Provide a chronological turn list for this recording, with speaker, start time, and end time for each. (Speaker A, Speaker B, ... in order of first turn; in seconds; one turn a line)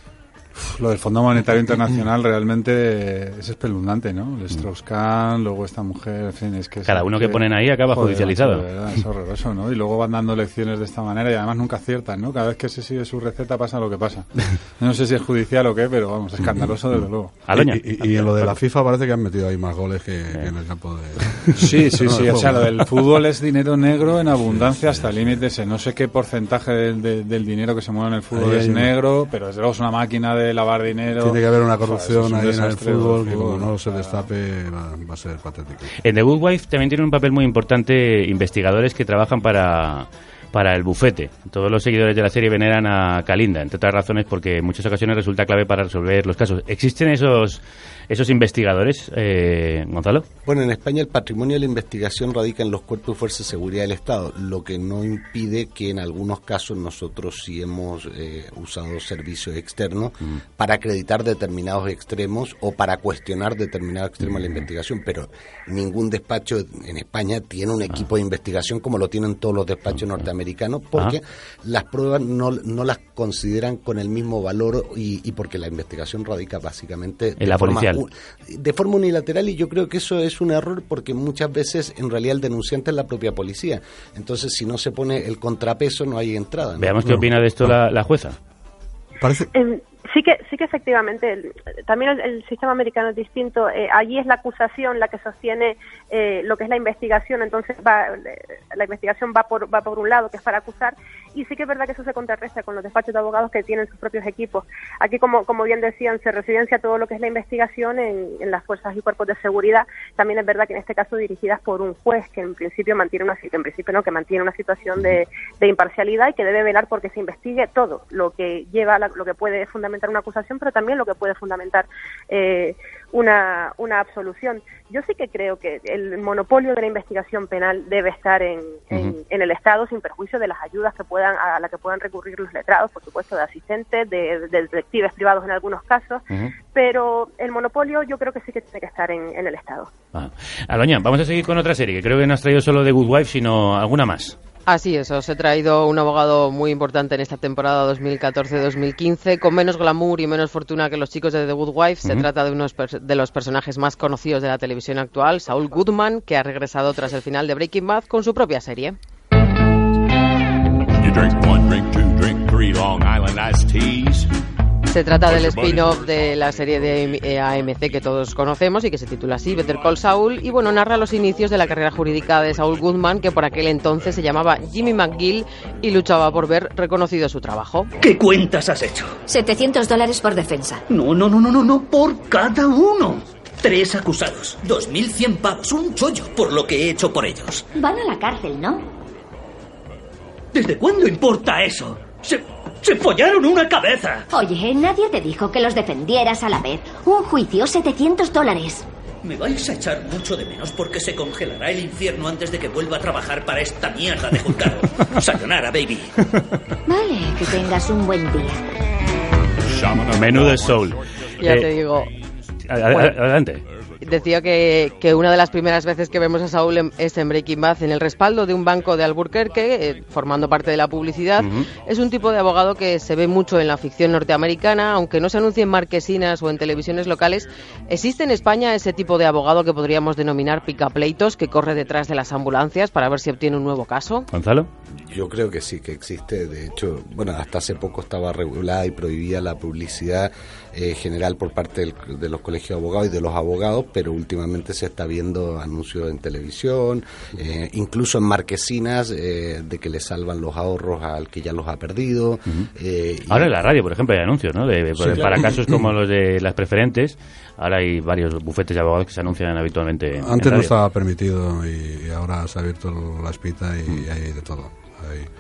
Speaker A: 0.6-17.3
Speaker B: 6.9-8.6
Speaker B: 17.5-18.6
Speaker C: 17.5-22.7
Speaker A: 21.6-34.3
Speaker C: 24.4-25.4
Speaker C: 28.3-28.9
Speaker C: 31.2-35.9
Speaker B: 36.0-50.2
Speaker D: 50.5-87.0
Speaker B: 77.4-78.0
Speaker B: 86.8-88.4
Speaker C: 87.1-87.8
Speaker C: 89.2-89.5
Speaker E: 89.5-139.9
Speaker B: 140.1-144.3
Speaker F: 144.7-159.0
Speaker G: 161.1-164.2
Speaker F: 164.9-177.9
Speaker G: 165.3-165.9
Speaker H: 178.0-179.2
Speaker I: 179.3-180.8
Speaker H: 180.9-187.7
Speaker I: 187.8-188.8
Speaker H: 190.5-194.3
Speaker I: 194.4-198.8
Speaker H: 199.2-206.1
Speaker I: 206.9-208.6
Speaker G: 209.8-210.6
Speaker B: 210.1-211.0
Speaker F: 211.4-212.1
Speaker B: 212.7-213.6
Speaker F: 212.9-213.2
Speaker F: 214.0-234.3
Speaker B: 221.4-221.7
Speaker B: 234.3-234.7
Speaker D: 235.1-253.5
Speaker B: 253.3-260.7
Speaker C: 260.2-265.3